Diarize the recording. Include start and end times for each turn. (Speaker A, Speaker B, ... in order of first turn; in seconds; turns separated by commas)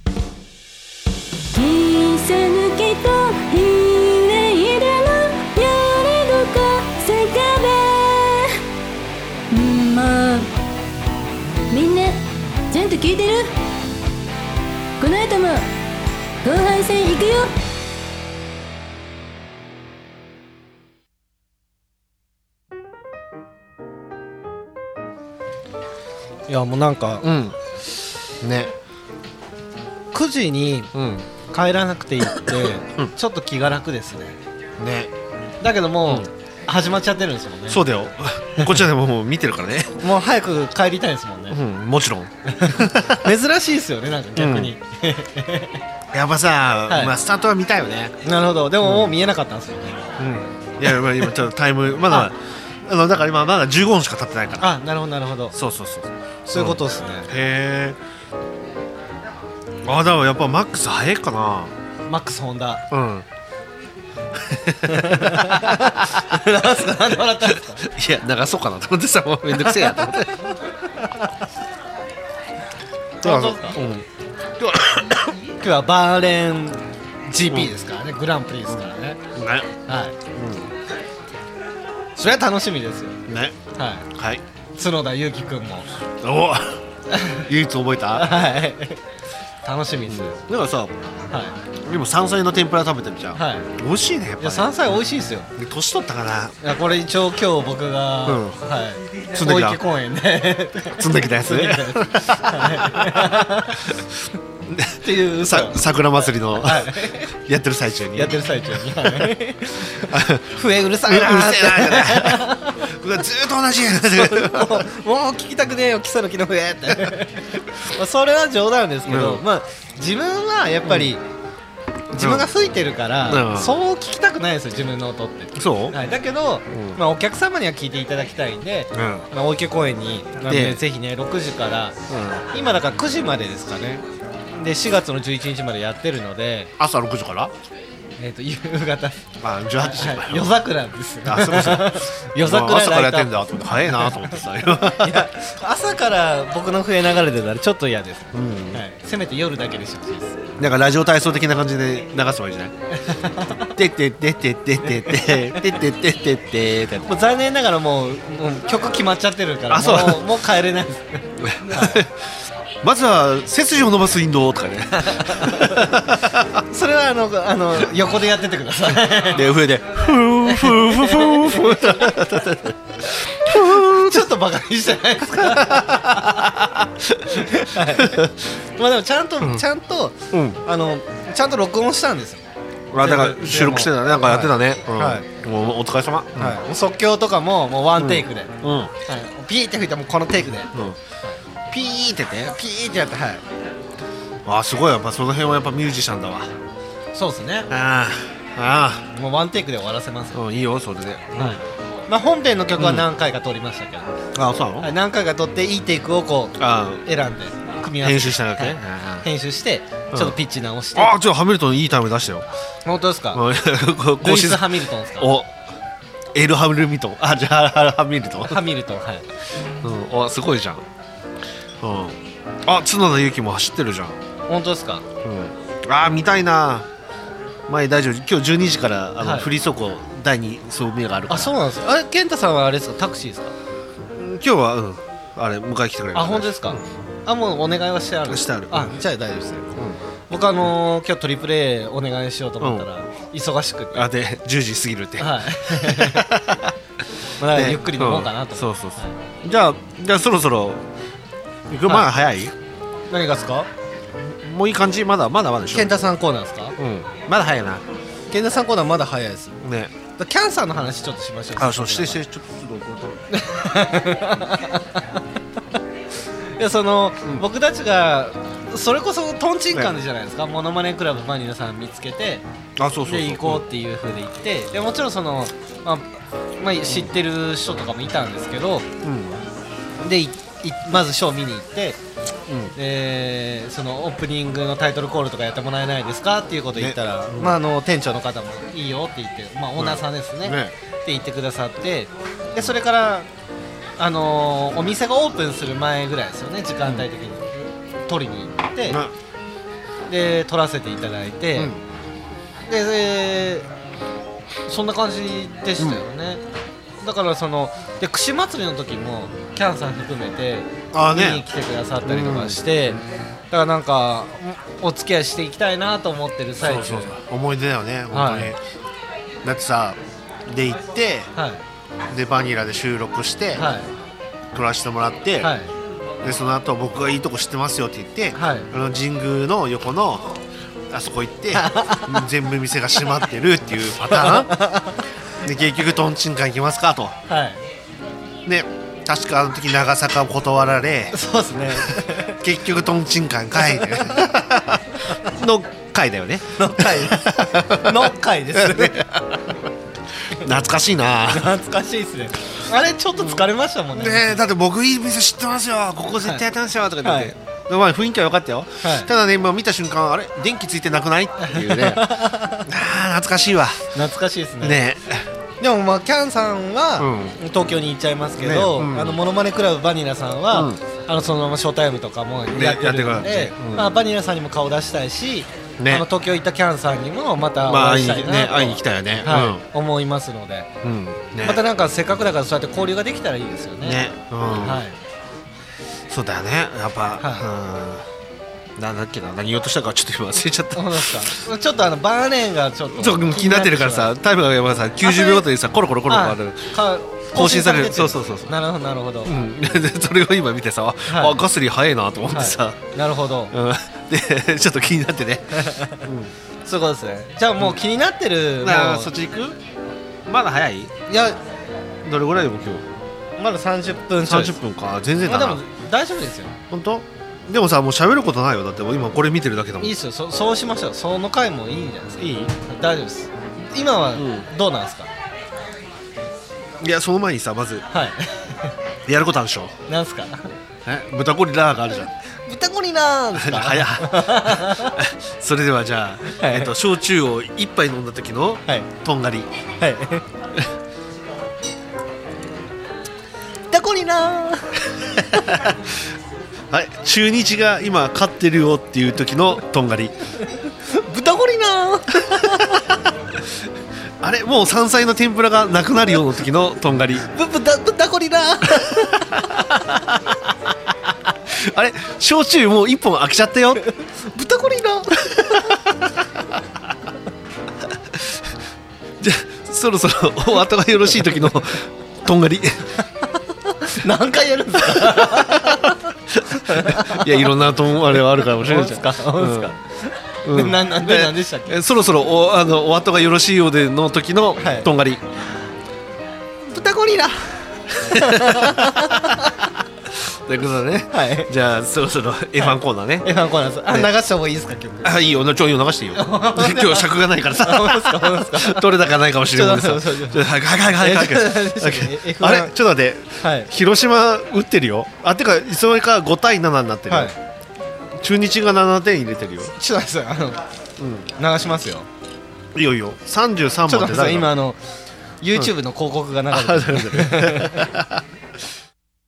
Speaker A: 1.5-8.6, Speaker A: 9.5-10.5, Speaker A: 11.7-13.6, Speaker A: 15.0-15.7, Speaker A: 16.4-17.5, Speaker B: 26.5-27.3, Speaker C: 27.2-27.6, Speaker C: 28.4-28.7, Speaker B: 30.1-30.9, Speaker C: 30.9-31.3, Speaker B: 31.5-34.4, Speaker C: 34.8-35.1, Speaker B: 35.6-37.8, Speaker C: 37.7-40.0, Speaker B: 40.0-41.6, Speaker C: 41.5-43.3, Speaker B: 42.5-45.8, Speaker C: 44.4-44.7, Speaker C: 46.1-48.2, Speaker B: 46.9-47.1, Speaker B: 48.2-50.2, Speaker C: 48.8-49.1, Speaker C: 50.2-54.7, Speaker B: 54.6-55.6, Speaker C: 55.5-58.0, Speaker B: 56.5-57.3, Speaker C: 59.9-61.7, Speaker B: 62.1-62.8, Speaker C: 62.9-63.3, Speaker C: 64.4-66.3, Speaker B: 64.9-67.9, Speaker C: 67.8-70.5, Speaker B: 69.6-70.2, Speaker B: 73.2-73.8, Speaker C: 73.2-74.1, Speaker C: 74.6-75.3, Speaker B: 75.6-79.2, Speaker C: 79.3-79.7, Speaker B: 79.9-80.2, Speaker C: 80.3-80.7, Speaker B: 82.2-83.2, Speaker C: 83.3-83.6, Speaker B: 83.8-84.0, Speaker C: 84.1-84.4, Speaker B: 84.8-85.9, Speaker C: 86.2-86.8, Speaker B: 87.1-87.5, Speaker C: 87.5-88.3, Speaker B: 88.2-89.0, Speaker B: 89.6-90.4, Speaker C: 90.0-91.0, Speaker B: 91.3-91.6, Speaker C: 91.8-94.8, Speaker B: 93.3-93.7, Speaker B: 94.4-95.5, Speaker C: 95.6-96.6, Speaker B: 96.6-103.9, Speaker C: 98.3-98.6, Speaker C: 99.3-99.8, Speaker C: 101.0-104.0, Speaker C: 104.7-108.4, Speaker B: 105.0-105.8, Speaker B: 106.5-107.3, Speaker B: 108.1-112.9, Speaker C: 110.0-114.8, Speaker B: 113.9-121.2, Speaker C: 119.1-119.4, Speaker C: 120.9-121.1, Speaker B: 122.1-132.0, Speaker C: 122.2-122.5, Speaker C: 123.2-123.8, Speaker C: 125.6-126.0, Speaker C: 126.7-127.0, Speaker C: 128.9-129.2, Speaker C: 130.5-130.8, Speaker C: 132.1-132.4, Speaker B: 132.5-134.0, Speaker B: 134.6-136.7, Speaker C: 136.8-137.5, Speaker B: 138.2-139.2, Speaker C: 139.4-140.6, Speaker B: 139.8-150.4, Speaker C: 141.2-145.3, Speaker C: 148.3-148.8, Speaker C: 150.6-152.7, Speaker B: 153.0-153.7, Speaker C: 153.8-157.1, Speaker B: 154.8-155.7, Speaker B: 157.1-162.0, Speaker C: 159.7-160.3, Speaker C: 161.4-162.2, Speaker C: 162.8-166.6, Speaker B: 165.1-165.9, Speaker B: 166.6-169.5, Speaker C: 169.3-174.3, Speaker B: 170.5-172.2, Speaker B: 173.5-176.4, Speaker C: 175.4-178.3, Speaker B: 177.3-182.4, Speaker C: 180.3-180.6, Speaker C: 182.9-186.6, Speaker B: 183.0-185.2, Speaker B: 186.4-188.5, Speaker C: 188.0-188.9, Speaker B: 189.1-190.7, Speaker C: 191.7-192.6, Speaker B: 192.5-193.4, Speaker C: 194.5-196.5, Speaker B: 197.1-197.7, Speaker C: 197.7-199.1, Speaker B: 199.1-200.4, Speaker C: 200.3-201.6, Speaker B: 201.4-204.2, Speaker C: 202.8-203.1, Speaker C: 204.3-204.9, Speaker B: 204.8-211.2, Speaker C: 206.6-207.1, Speaker C: 208.0-209.3, Speaker C: 210.9-212.5, Speaker B: 212.8-213.4, Speaker C: 213.3-215.5, Speaker B: 214.2-215.4, Speaker C: 216.3-218.6, Speaker B: 218.4-219.3, Speaker C: 219.8-220.8, Speaker C: 221.8-224.2, Speaker B: 224.5-225.1, Speaker C: 225.2-226.9, Speaker C: 227.7-231.6, Speaker B: 229.2-229.5, Speaker B: 231.3-233.6, Speaker C: 234.1-236.8, Speaker B: 236.1-239.7, Speaker C: 238.3-238.9, Speaker B: 240.3-244.1, Speaker C: 242.6-242.9, Speaker C: 243.9-246.8, Speaker B: 245.2-246.3, Speaker B: 247.4-249.2, Speaker C: 247.5-250.8, Speaker C: 251.7-252.5, Speaker B: 253.1-253.7, Speaker C: 254.2-256.0, Speaker B: 255.7-256.8, Speaker C: 256.8-257.8, Speaker B: 258.3-259.6, Speaker C: 259.6-259.9, Speaker B: 260.2-262.2, Speaker C: 261.6-263.2, Speaker B: 263.3-265.2, Speaker B: 266.6-272.4, Speaker C: 272.8-273.6, Speaker B: 273.1-276.1, Speaker B: 276.6-278.9, Speaker C: 279.0-279.4, Speaker B: 280.0-282.0, Speaker C: 282.5-282.8, Speaker B: 282.8-293.3, Speaker C: 286.8-287.6, Speaker C: 289.8-290.7, Speaker B: 294.0-299.0, Speaker C: 298.9-299.1, Speaker B: 300.1-301.7, Speaker C: 301.6-301.8, Speaker B: 302.7-303.7, Speaker B: 304.7-306.4, Speaker B: 307.0-313.0, Speaker C: 310.9-311.4, Speaker C: 312.0-313.0, Speaker B: 313.5-317.2, Speaker C: 316.6-318.6, Speaker B: 318.1-318.6, Speaker C: 319.4-321.3, Speaker B: 321.4-321.6, Speaker C: 322.1-323.6, Speaker B: 323.6-323.9, Speaker C: 324.5-325.5, Speaker B: 325.4-325.7, Speaker C: 326.2-330.4, Speaker B: 328.4-328.7, Speaker C: 330.9-334.6, Speaker B: 331.5-332.2, Speaker B: 334.1-335.0, Speaker C: 335.4-337.1, Speaker B: 337.3-337.6, Speaker C: 338.5-341.2, Speaker B: 341.1-342.4, Speaker C: 341.7-349.5, Speaker B: 343.7-344.3, Speaker B: 346.5-349.1, Speaker C: 350.3-351.5, Speaker B: 351.3-354.4, Speaker C: 353.2-362.1, Speaker B: 357.0-357.3, Speaker B: 358.8-359.1, Speaker B: 361.4-362.7, Speaker C: 362.6-363.9, Speaker B: 363.9-364.8, Speaker C: 364.6-365.3, Speaker B: 365.6-380.7, Speaker C: 367.0-367.4, Speaker C: 368.4-369.2, Speaker C: 370.5-370.8, Speaker C: 372.5-373.9, Speaker C: 375.8-376.1, Speaker C: 377.6-379.6, Speaker C: 380.8-381.6, Speaker B: 381.4-385.0, Speaker C: 383.8-384.8, Speaker C: 386.1-388.1, Speaker B: 387.2-387.5, Speaker C: 388.8-391.4, Speaker B: 390.8-394.1, Speaker C: 392.9-396.7, Speaker B: 395.0-395.4, Speaker B: 396.1-399.4, Speaker C: 397.3-398.6, Speaker C: 399.2-402.8, Speaker B: 401.1-401.4, Speaker B: 402.3-403.5, Speaker C: 403.5-406.3, Speaker B: 405.5-406.0, Speaker B: 406.7-409.1, Speaker C: 408.6-409.6, Speaker C: 410.3-410.9, Speaker B: 411.1-411.4, Speaker C: 412.0-412.9, Speaker B: 413.4-414.6, Speaker C: 414.3-415.6, Speaker B: 415.2-416.6, Speaker C: 416.7-419.9, Speaker B: 419.8-425.1, Speaker C: 422.2-422.5, Speaker C: 424.2-424.5, Speaker C: 426.8-427.9, Speaker B: 427.9-428.7, Speaker C: 429.1-429.7, Speaker B: 429.9-430.5, Speaker C: 430.9-432.1, Speaker B: 432.4-435.0, Speaker C: 433.4-439.5, Speaker B: 436.3-436.7, Speaker B: 439.8-440.2, Speaker B: 443.7-445.6, Speaker C: 445.5-445.8, Speaker C: 446.7-450.1, Speaker B: 450.8-452.9, Speaker C: 454.2-457.3, Speaker B: 457.3-459.7, Speaker C: 461.5-463.9, Speaker B: 464.0-465.9, Speaker C: 468.1-468.4, Speaker C: 469.2-472.9, Speaker B: 473.7-477.5, Speaker C: 474.9-475.7, Speaker C: 476.3-479.8, Speaker B: 478.1-481.8, Speaker C: 480.4-485.2, Speaker B: 484.6-484.9, Speaker B: 486.6-489.7, Speaker C: 488.0-489.5, Speaker C: 490.1-493.3, Speaker B: 491.1-491.5, Speaker B: 492.6-495.2, Speaker C: 495.0-507.3, Speaker B: 496.1-498.9, Speaker B: 499.4-502.8, Speaker B: 503.4-503.7, Speaker B: 507.1-507.4, Speaker C: 508.2-509.7, Speaker B: 509.6-510.7, Speaker C: 511.0-511.3, Speaker B: 511.4-512.1, Speaker C: 512.7-514.5, Speaker B: 513.9-514.8, Speaker B: 515.4-517.9, Speaker C: 516.5-518.2